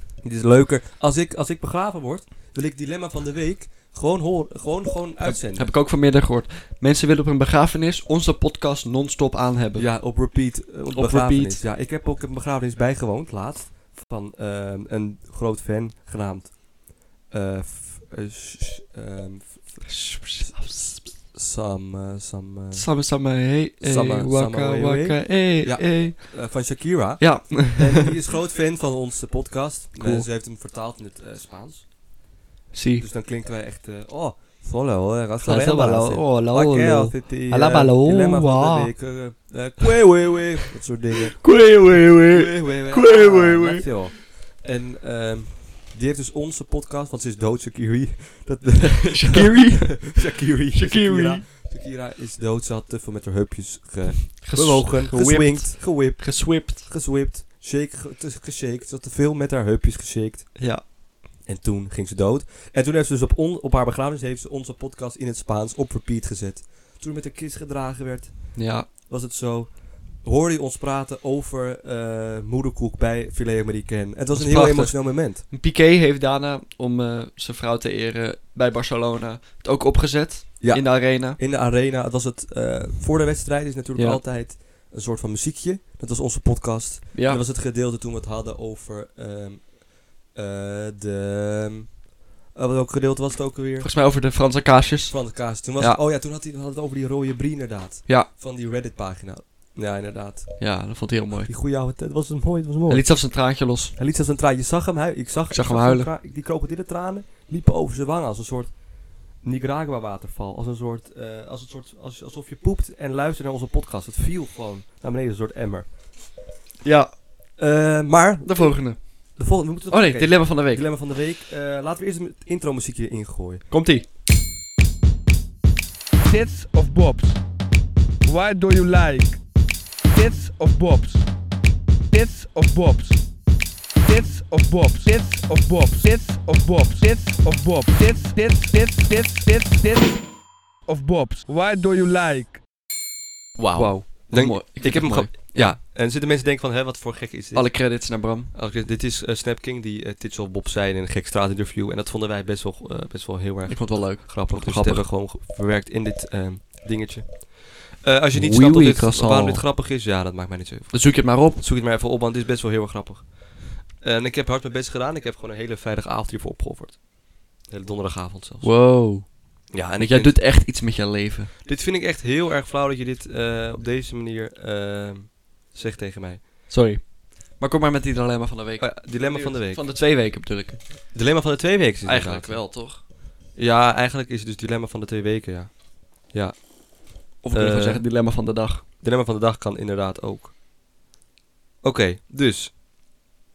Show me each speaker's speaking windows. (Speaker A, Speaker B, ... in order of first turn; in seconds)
Speaker A: 0.2-5.7, 9.8-22.9, 23.8-31.9, 33.0-41.5, 42.3-60.9, 61.4-75.4, 80.6-92.0, 92.5-93.9, 95.1-100.9, 101.4-103.3, 104.0-115.9, 117.6-123.7, 143.6-167.0, 167.7-168.7, 169.7-170.4, 171.6-176.4, 178.8-179.8, 181.1-182.7, 183.6-186.7, 187.4-188.0, 189.0-190.5, 191.8-192.7
Speaker B: 5.2-9.9, 10.9-11.6, 19.9-20.8, 22.7-28.1, 30.0-30.3, 32.7-33.1, 35.4-38.9, 41.3-44.0, 49.0-51.4, 54.4-56.9, 60.6-60.9, 68.5-68.9, 74.3-81.4, 84.0-84.2, 87.1-87.4, 93.8-96.0, 100.6-101.5, 102.9-104.0, 105.5-106.1, 116.8-117.2, 118.4-120.9, 123.7-124.1, 143.8-145.8, 147.5-148.5, 153.7-155.1, 158.3-159.7, 160.9-161.6, 168.6-171.5, 176.7-180.8, 182.0-183.0, 187.4-188.8
Speaker C: 126.2-127.4, 128.2-129.4, 130.1-131.3, 132.1-133.2, 134.0-140.2, 140.9-142.6